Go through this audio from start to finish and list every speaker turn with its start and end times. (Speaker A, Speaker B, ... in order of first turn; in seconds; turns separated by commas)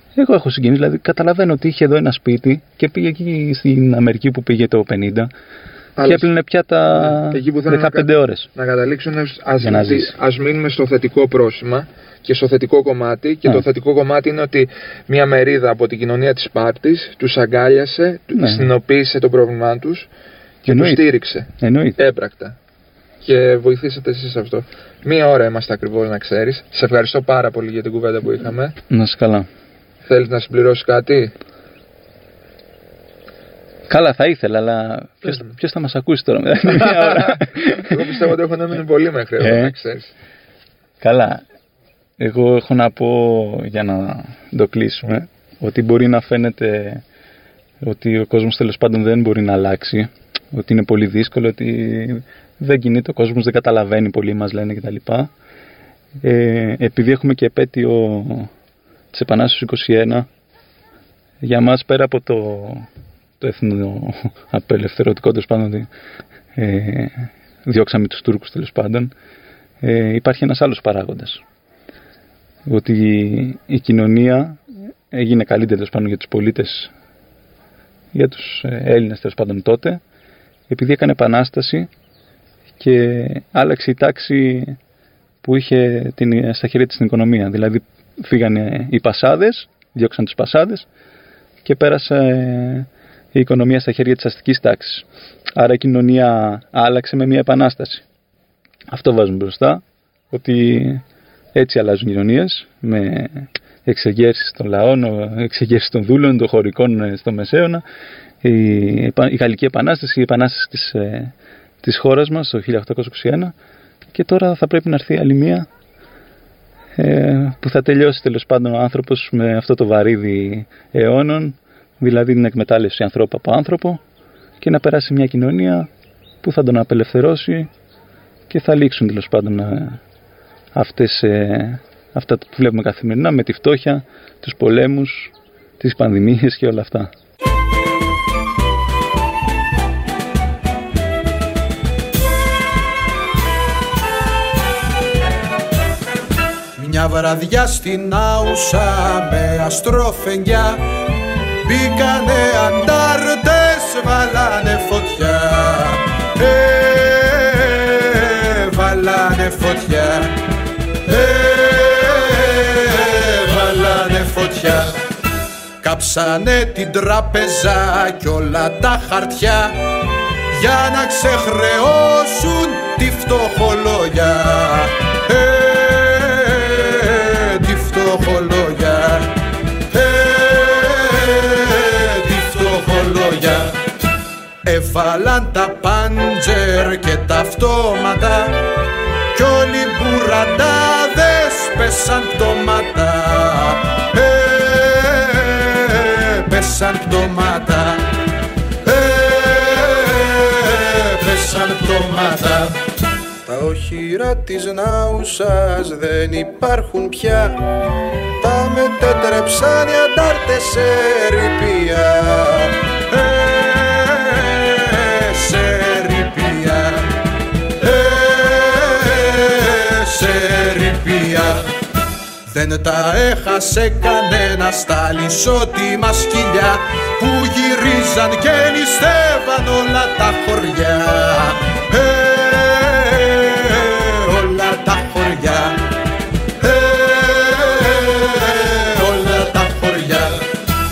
Speaker A: 0.1-5.3, Speaker B: 6.0-6.3, Speaker A: 6.0-8.5, Speaker B: 6.9-20.1, Speaker A: 9.6-10.1, Speaker A: 18.3-18.7, Speaker B: 20.6-22.6, Speaker A: 20.6-21.1, Speaker A: 21.6-22.0, Speaker B: 23.2-28.8, Speaker A: 28.9-29.5, Speaker B: 30.1-31.3, Speaker A: 33.9-38.0, Speaker B: 36.8-40.1, Speaker A: 39.4-39.7, Speaker A: 41.0-41.4, Speaker A: 42.2-47.0, Speaker A: 47.8-55.3, Speaker A: 56.2-58.5, Speaker A: 59.1-60.3, Speaker A: 61.4-62.9, Speaker A: 63.4-65.9, Speaker A: 66.5-69.1, Speaker A: 69.8-71.4, Speaker A: 72.7-74.6, Speaker A: 75.1-76.9, Speaker A: 78.1-80.0, Speaker A: 80.7-81.9, Speaker A: 82.8-84.8, Speaker A: 85.4-90.9, Speaker A: 91.6-98.0, Speaker A: 98.9-101.0, Speaker A: 101.5-107.8, Speaker A: 108.4-113.5, Speaker A: 114.1-115.7, Speaker A: 117.0-124.0, Speaker A: 124.6-125.9, Speaker A: 126.4-127.7, Speaker A: 128.5-130.0, Speaker A: 130.7-137.1, Speaker C: 146.8-150.8, Speaker C: 151.6-160.3, Speaker C: 161.1-164.9, Speaker C: 165.8-169.8, Speaker C: 170.5-179.3, Speaker C: 179.9-183.7, Speaker C: 184.7-188.6, Speaker C: 189.3-198.0, Speaker C: 198.8-202.7, Speaker C: 203.4-207.6, Speaker C: 208.4-217.1, Speaker C: 217.8-221.7, Speaker C: 222.5-235.8, Speaker C: 236.6-240.4